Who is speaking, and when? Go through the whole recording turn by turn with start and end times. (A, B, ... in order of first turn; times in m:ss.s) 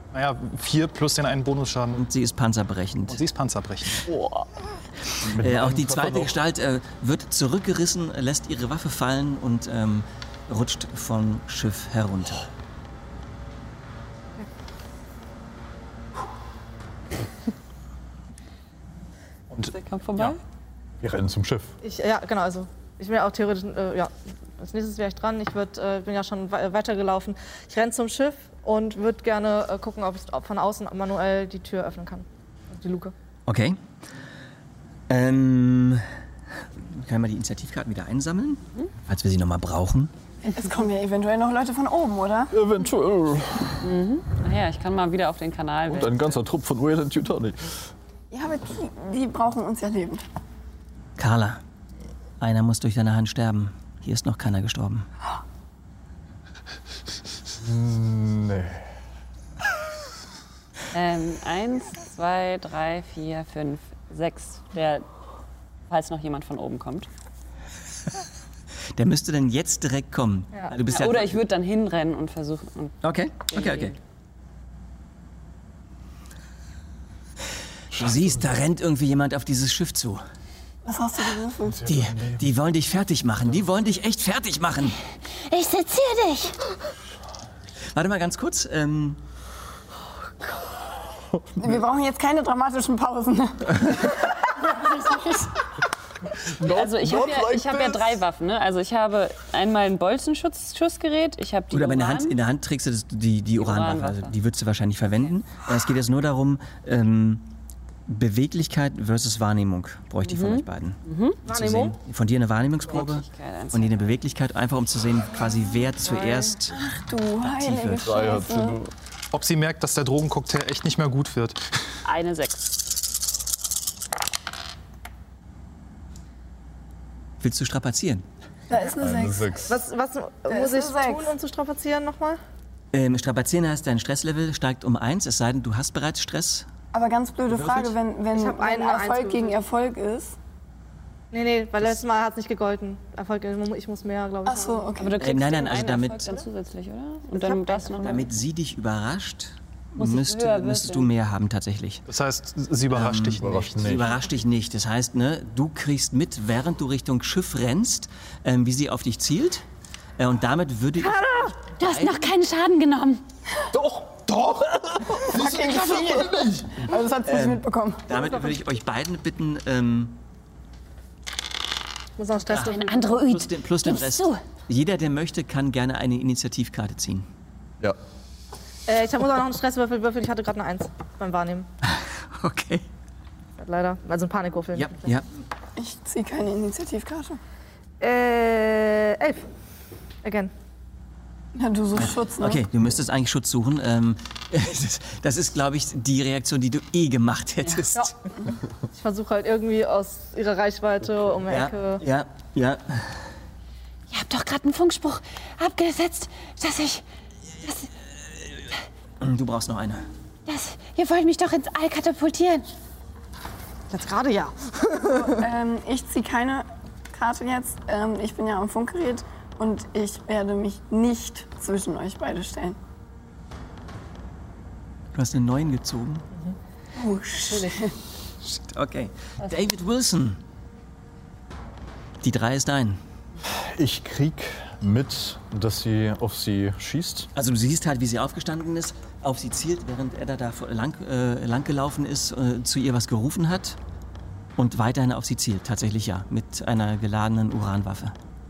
0:00.1-0:02.0 A
0:01.9-0:03.2 B
0:03.1-0:04.1 A
0:04.1-0:04.4 C
0:05.2-0:06.4 C
0:05.2-0:12.5 B
0:19.5-0:20.3 A
0:19.7-0:20.4 D
0:21.0-0:21.7 C
0:21.8-0:33.1 E
0:33.5-0:33.8 B
0:35.1-0:36.0 B
0:36.9-0:40.1 B
0:40.4-0:42.5 F
0:42.5-0:43.7 C
0:43.8-0:46.3 D
0:45.9-0:47.7 C
0:48.3-0:50.2 F
0:51.2-0:51.6 B
0:52.4-0:55.1 B
0:57.6-0:58.8 C
1:00.9-1:05.0 D
1:05.9-1:07.1 D
1:09.0-1:11.4 B
1:10.9-1:13.0 D
1:13.0-1:13.9 B
1:13.5-1:14.0 D
1:17.9-1:20.2 B
1:20.8-1:21.9 F
1:21.8-1:25.0 B
1:21.8-1:22.4 C
1:25.5-1:26.6 D
1:27.9-1:29.2 B
1:31.6-1:35.5 F
1:36.5-1:38.2 C
1:36.6-1:42.4 D
1:41.7-1:47.5 B
1:43.6-1:44.3 D
1:48.1-1:56.8 B
1:50.2-1:51.4 D
1:51.5-1:52.0 E
1:52.9-1:54.1 D
1:56.0-1:56.5 E
1:56.7-1:58.8 F
1:57.4-1:58.0 B
1:58.0-1:58.9 C
1:59.3-2:01.6 A
2:02.0-2:02.7 D
2:07.4-2:08.2 B
2:08.7-2:09.5 F
2:08.9-2:09.7 C
2:09.7-2:12.4 E
2:10.5-2:11.3 F
2:12.9-2:16.7 B
2:16.9-2:20.3 F
2:17.5-2:17.9 B
2:18.3-2:19.6 E
2:21.3-2:24.9 E
2:24.4-2:25.2 F
2:25.0-2:28.3 D
2:25.2-2:26.4 B
2:27.3-2:28.2 E
2:28.0-2:32.0 B
2:30.0-2:31.1 D
2:32.1-2:34.0 A
2:32.9-2:39.6 B
2:33.4-2:34.1 C
2:40.2-2:42.2 B
2:41.8-2:43.2 D
2:43.7-2:46.7 C
2:45.2-2:48.1 F
2:47.2-2:50.2 B
2:48.1-2:48.5 E
2:52.2-2:53.2 E
2:52.5-2:57.3 B
2:52.5-2:54.4 D
2:58.9-3:01.7 E
3:02.3-3:02.8 B
3:03.6-3:05.0 E
3:04.7-3:05.2 B
3:05.8-3:07.4 F
3:08.0-3:09.4 E
3:10.2-3:10.5 E
3:11.5-3:12.6 F
3:12.0-3:18.1 B
3:18.9-3:22.0 E
3:21.5-3:23.2 B
3:24.1-3:27.0 D
3:27.6-3:27.9 D
3:29.2-3:30.0 B
3:30.5-3:32.6 D
3:33.9-3:35.4 E
3:35.2-3:42.8 F
3:45.1-3:46.3 B
3:47.0-3:47.9 F
3:48.4-3:50.4 B
3:52.2-3:53.0 B
3:53.4-3:57.3 C
3:57.3-4:03.8 B
4:04.6-4:08.1 B